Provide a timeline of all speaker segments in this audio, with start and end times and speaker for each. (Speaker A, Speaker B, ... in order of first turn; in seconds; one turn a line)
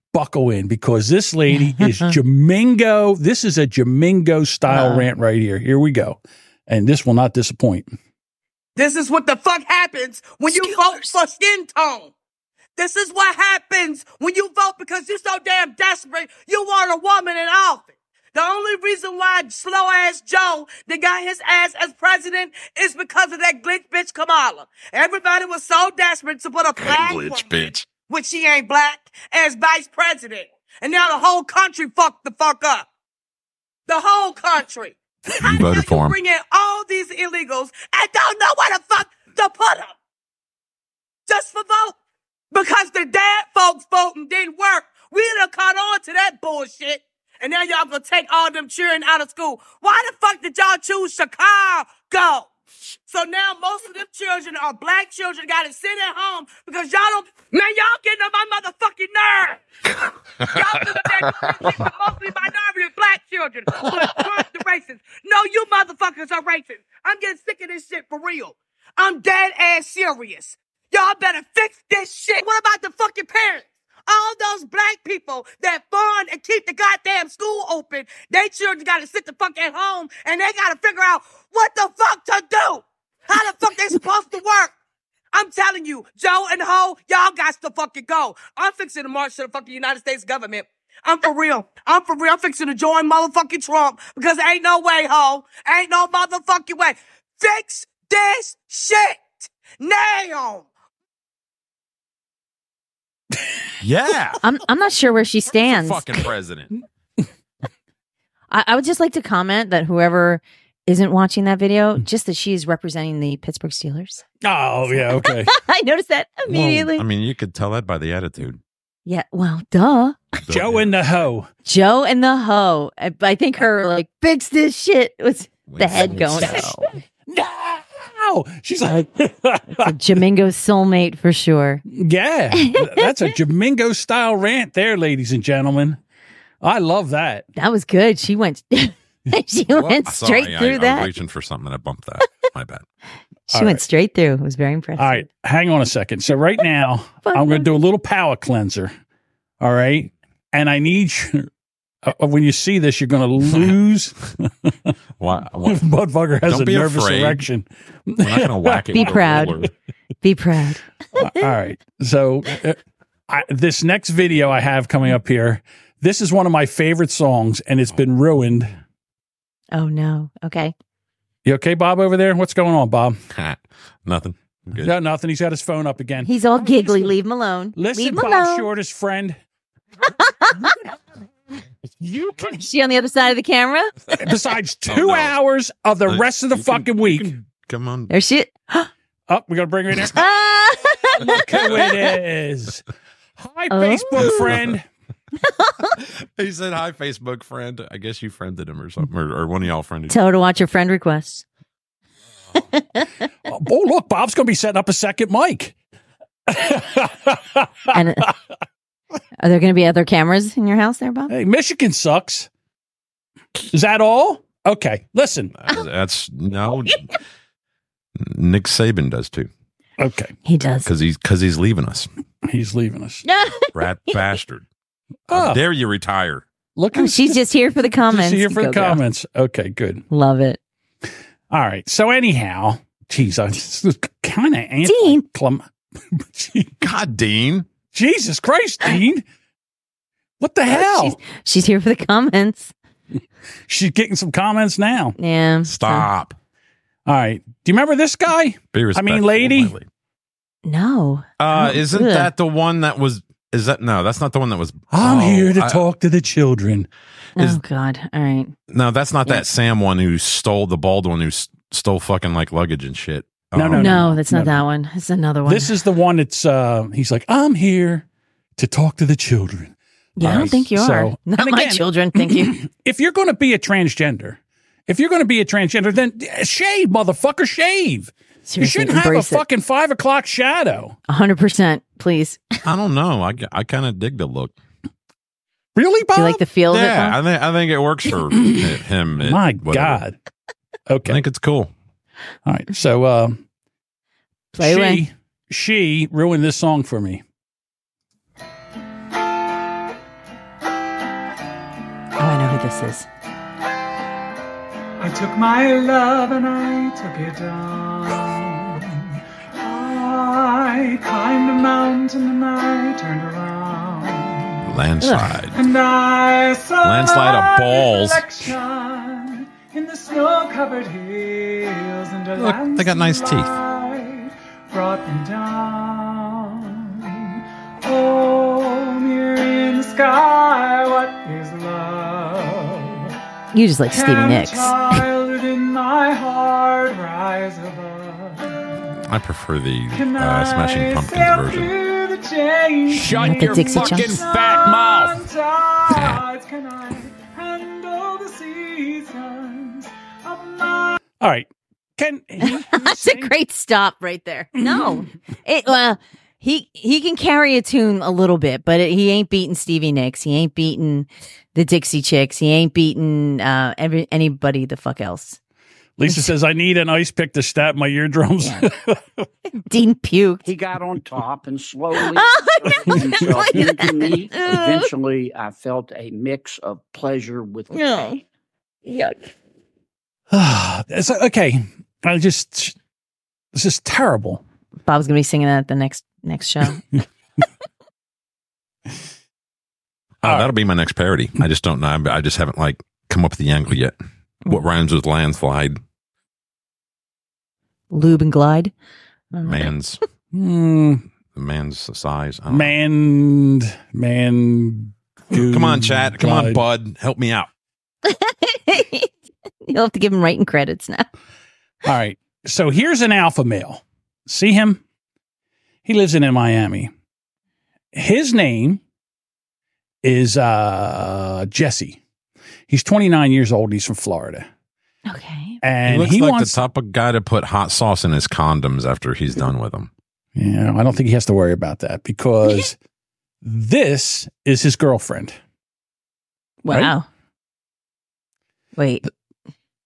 Speaker A: 0.1-8.0
Speaker B: 1.5-2.1
Speaker B: 4.7-5.1
Speaker C: 8.8-12.1
Speaker B: 10.5-11.2
Speaker C: 12.8-32.9
Speaker D: 26.8-27.9
Speaker C: 33.9-40.0
Speaker D: 35.4-36.2
Speaker C: 41.3-42.0
Speaker C: 42.5-52.5
Speaker C: 53.1-59.6
Speaker C: 60.4-84.7
Speaker C: 85.3-100.7
Speaker D: 103.8-104.4
Speaker B: 104.4-106.3
Speaker D: 105.5-106.7
Speaker B: 108.5-114.2
Speaker A: 114.4-115.5
Speaker B: 114.9-117.0
Speaker D: 116.5-118.6
Speaker B: 119.0-120.2
Speaker D: 120.5-121.2
Speaker A: 120.5-121.5
Speaker B: 121.6-126.9
Speaker D: 125.7-126.7
Speaker A: 126.4-129.9
Speaker B: 129.8-131.8
Speaker A: 131.9-136.0
Speaker B: 132.6-133.0
Speaker A: 136.6-137.4
Speaker B: 137.6-141.1
Speaker D: 139.7-142.8
Speaker B: 143.5-145.2
Speaker A: 143.5-143.8
Speaker A: 145.0-148.9
Speaker B: 147.2-147.8
Speaker A: 149.6-151.5
Speaker A: 152.0-154.9
Speaker D: 155.2-155.8
Speaker A: 155.6-159.2
Speaker D: 156.4-157.4
Speaker D: 158.2-159.7
Speaker B: 158.9-159.6
Speaker B: 160.2-160.8
Speaker A: 161.2-168.7
Speaker B: 169.7-170.7
Speaker A: 171.4-173.2
Speaker D: 173.3-174.9
Speaker A: 174.8-176.3
Speaker B: 176.2-178.7
Speaker A: 177.8-179.4
Speaker B: 180.4-180.7
Speaker B: 182.3-183.9
Speaker A: 184.2-187.3
Speaker D: 184.9-185.3
Speaker D: 186.1-188.1
Speaker B: 188.1-188.9
Speaker A: 189.3-190.2
Speaker B: 190.1-191.9
Speaker A: 191.2-192.8
Speaker A: 193.4-194.8
Speaker B: 193.7-194.5
Speaker D: 194.2-194.5
Speaker D: 196.4-200.2
Speaker B: 200.1-201.4
Speaker A: 203.5-205.7
Speaker A: 206.5-207.9
Speaker B: 207.9-208.3
Speaker B: 209.4-211.3
Speaker A: 211.3-212.5
Speaker A: 213.7-215.5
Speaker D: 215.6-217.2
Speaker D: 218.2-219.5
Speaker A: 220.0-220.3
Speaker B: 220.4-220.9
Speaker D: 220.8-222.1
Speaker A: 222.4-223.2
Speaker B: 223.2-223.7
Speaker D: 223.7-224.6
Speaker A: 225.3-225.6
Speaker D: 225.3-226.4
Speaker A: 226.8-227.4
Speaker B: 226.9-229.0
Speaker A: 228.0-230.0
Speaker B: 230.1-230.6
Speaker A: 231.5-236.8
Speaker B: 234.8-235.2
Speaker D: 236.8-237.7
Speaker A: 237.9-239.2
Speaker A: 240.4-241.2
Speaker B: 240.7-242.7
Speaker A: 243.7-245.2
Speaker B: 245.2-246.1
Speaker D: 245.7-246.3
Speaker A: 247.1-249.7
Speaker D: 248.7-249.9
Speaker B: 250.6-252.3
Speaker D: 251.4-255.8
Speaker A: 254.9-256.9
Speaker B: 257.4-258.5
Speaker D: 258.7-264.1
Speaker A: 263.5-264.6
Speaker B: 263.7-265.7
Speaker A: 265.4-268.1
Speaker A: 268.6-280.9
Speaker B: 270.2-272.6
Speaker B: 278.5-279.4
Speaker B: 281.1-282.4
Speaker D: 282.6-284.5
Speaker A: 285.7-286.4
Speaker B: 286.1-287.2
Speaker D: 286.7-290.0
Speaker A: 289.2-290.1
Speaker A: 290.9-291.2
Speaker D: 291.1-291.7
Speaker A: 292.4-293.4
Speaker B: 294.5-295.0
Speaker A: 294.6-297.2
Speaker B: 302.2-303.1
Speaker E: 305.0-314.6
Speaker D: 314.6-315.6
Speaker B: 315.0-315.3
Speaker E: 315.5-333.1
Speaker D: 316.8-318.5
Speaker D: 322.4-323.6
Speaker B: 333.5-335.1
Speaker E: 333.9-338.9
Speaker D: 339.1-341.7
Speaker E: 339.9-351.0
Speaker A: 342.9-345.2
Speaker B: 343.1-344.2
Speaker D: 345.9-346.2
Speaker A: 351.2-353.3
Speaker B: 352.4-365.4
Speaker A: 354.6-354.9
Speaker A: 366.0-369.0
Speaker B: 368.4-368.7
Speaker B: 369.6-370.4
Speaker F: 370.4-377.9
Speaker B: 372.0-374.9
Speaker B: 377.7-378.2
Speaker B: 378.9-379.1
Speaker A: 380.3-382.8
Speaker A: 383.5-384.4
Speaker B: 384.9-386.8
Speaker D: 390.2-393.9
Speaker A: 390.2-390.5
Speaker D: 394.5-395.8
Speaker B: 397.9-398.7
Speaker B: 399.3-399.7
Speaker D: 399.4-400.0
Speaker A: 400.3-401.0
Speaker D: 401.3-402.7
Speaker A: 402.5-406.6
Speaker D: 405.3-407.5
Speaker B: 408.0-409.1
Speaker B: 409.7-411.1
Speaker A: 411.8-414.8
Speaker A: 415.8-416.9
Speaker A: 417.9-418.8
Speaker A: 420.0-422.0
Speaker A: 422.7-424.5
Speaker B: 425.1-425.6
Speaker A: 425.6-426.6
Speaker D: 425.9-429.9
Speaker A: 430.4-432.8
Speaker A: 433.4-435.4
Speaker B: 436.6-437.1
Speaker B: 438.8-439.0